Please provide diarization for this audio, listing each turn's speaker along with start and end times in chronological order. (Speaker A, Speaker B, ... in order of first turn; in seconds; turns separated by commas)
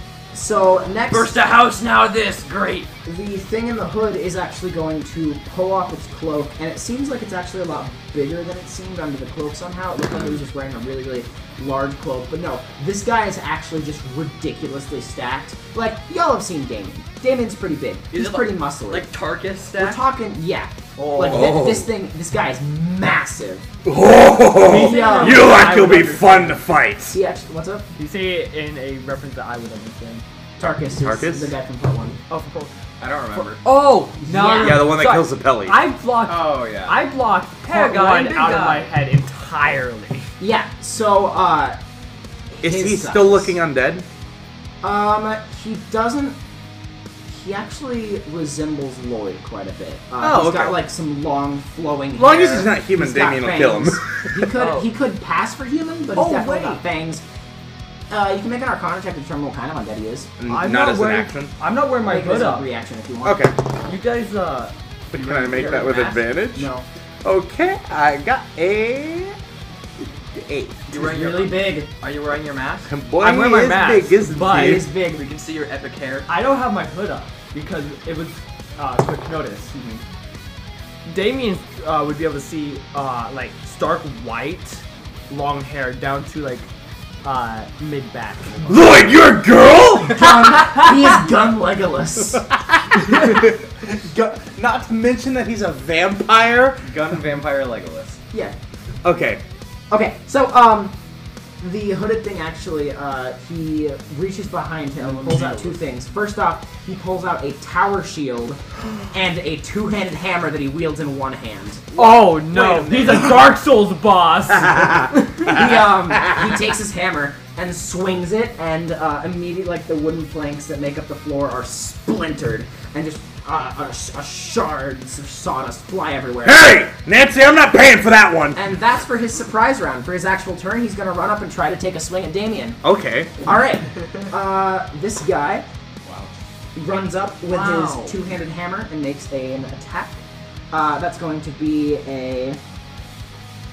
Speaker A: 0.3-1.3, Speaker B: 1.1-2.9, Speaker A: 3.0-19.1, Speaker B: 18.1-20.0, Speaker A: 19.7-23.7, Speaker B: 21.0-21.6, Speaker C: 21.3-21.9, Speaker C: 23.8-27.2, Speaker D: 24.6-26.6, Speaker A: 24.6-25.7, Speaker A: 27.1-27.9, Speaker D: 27.9-30.2, Speaker A: 30.6-32.2, Speaker C: 31.0-31.5, Speaker D: 32.3-32.7, Speaker E: 33.0-33.6, Speaker D: 33.6-40.3, Speaker A: 34.2-35.0, Speaker C: 34.5-35.8, Speaker E: 36.2-37.1, Speaker B: 37.7-38.9, Speaker A: 40.4-41.8, Speaker A: 42.5-43.5, Speaker C: 42.6-44.0, Speaker A: 44.8-46.4, Speaker A: 47.3-57.2, Speaker C: 50.2-50.8, Speaker C: 52.2-54.5, Speaker D: 56.1-56.8, Speaker A: 58.1-60.3, Speaker C: 60.4-61.5, Speaker D: 60.5-62.7, Speaker A: 62.0-63.5, Speaker C: 63.2-63.6, Speaker D: 63.8-66.1, Speaker C: 65.1-66.7, Speaker A: 65.5-66.8, Speaker C: 67.2-69.4, Speaker C: 70.3-70.8, Speaker B: 70.9-72.9, Speaker A: 70.9-71.9, Speaker E: 71.1-71.3, Speaker C: 72.9-74.9, Speaker D: 73.2-74.9, Speaker A: 74.4-75.2, Speaker B: 75.1-76.3, Speaker D: 76.3-79.8, Speaker A: 79.7-80.0, Speaker D: 81.0-86.7, Speaker D: 87.2-88.7, Speaker C: 88.7-90.4, Speaker A: 90.1-92.5, Speaker C: 92.8-96.9, Speaker E: 96.8-98.2, Speaker C: 99.0-99.4, Speaker A: 99.9-100.9, Speaker A: 101.6-111.9, Speaker E: 105.0-105.8, Speaker D: 111.9-115.5, Speaker C: 112.0-113.4, Speaker A: 115.4-126.7, Speaker C: 126.4-128.6, Speaker A: 128.5-132.8, Speaker C: 132.8-133.3, Speaker A: 133.4-135.7, Speaker A: 136.8-140.2, Speaker B: 137.5-138.1, Speaker A: 140.7-142.6